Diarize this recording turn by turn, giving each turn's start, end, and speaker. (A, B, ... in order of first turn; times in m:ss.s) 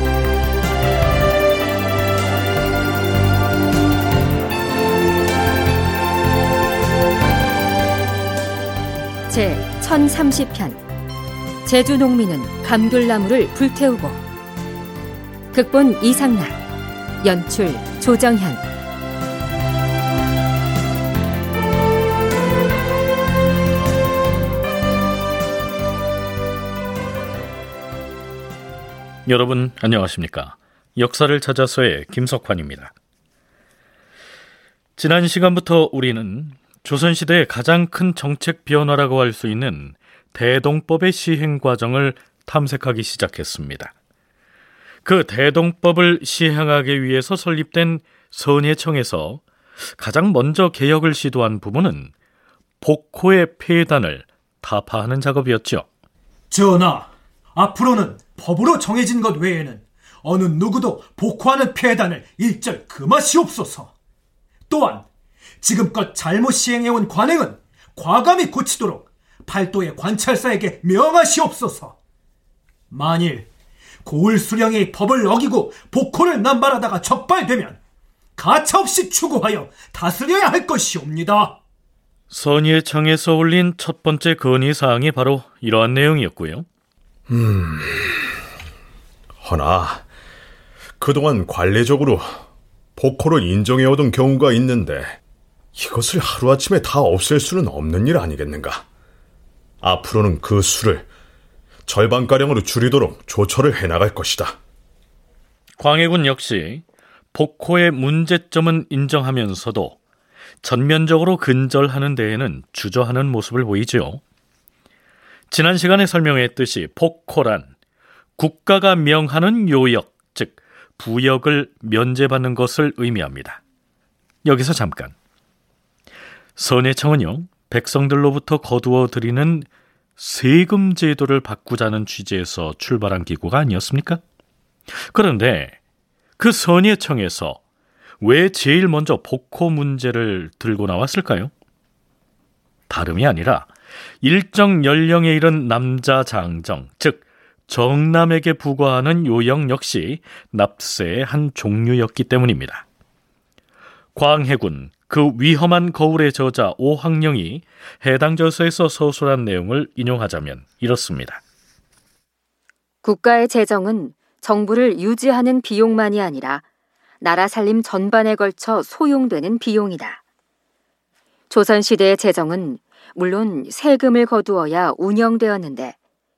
0:09.3-0:10.8 A
0:11.6-0:14.2 A
0:15.5-0:16.6 A
0:17.2-0:18.6 A
0:29.3-0:32.9 B
0:35.0-0:43.9 B
0:45.0-0:49.4 B
0:49.9-0:52.1 B
0:52.8-0:55.9 B
0:56.5-1:03.9 C
1:04.7-1:05.1 C
1:05.6-1:12.0 C
1:12.9-1:13.5 C
1:14.0-1:17.8 C
1:18.4-1:21.6 C
1:22.3-1:26.7 B
1:27.3-1:28.2 D
1:29.4-1:30.0 D
1:31.0-1:32.3 D
1:33.0-1:35.2 D
1:35.8-1:38.8 D
1:39.8-1:41.1 D
1:41.9-1:44.6 D
1:45.8-1:50.0 B
1:50.6-1:54.2 B
1:55.5-1:57.7 B
1:58.4-2:03.6 B
2:04.4-2:05.1 B
2:06.6-2:14.2 B
2:15.0-2:15.8 B
2:16.4-2:17.6 B
2:18.2-2:21.5 B
2:22.9-2:32.8 B
2:34.2-2:41.4 B
2:43.0-2:46.6 A
2:47.2-2:50.2 A
2:51.5-2:56.0 A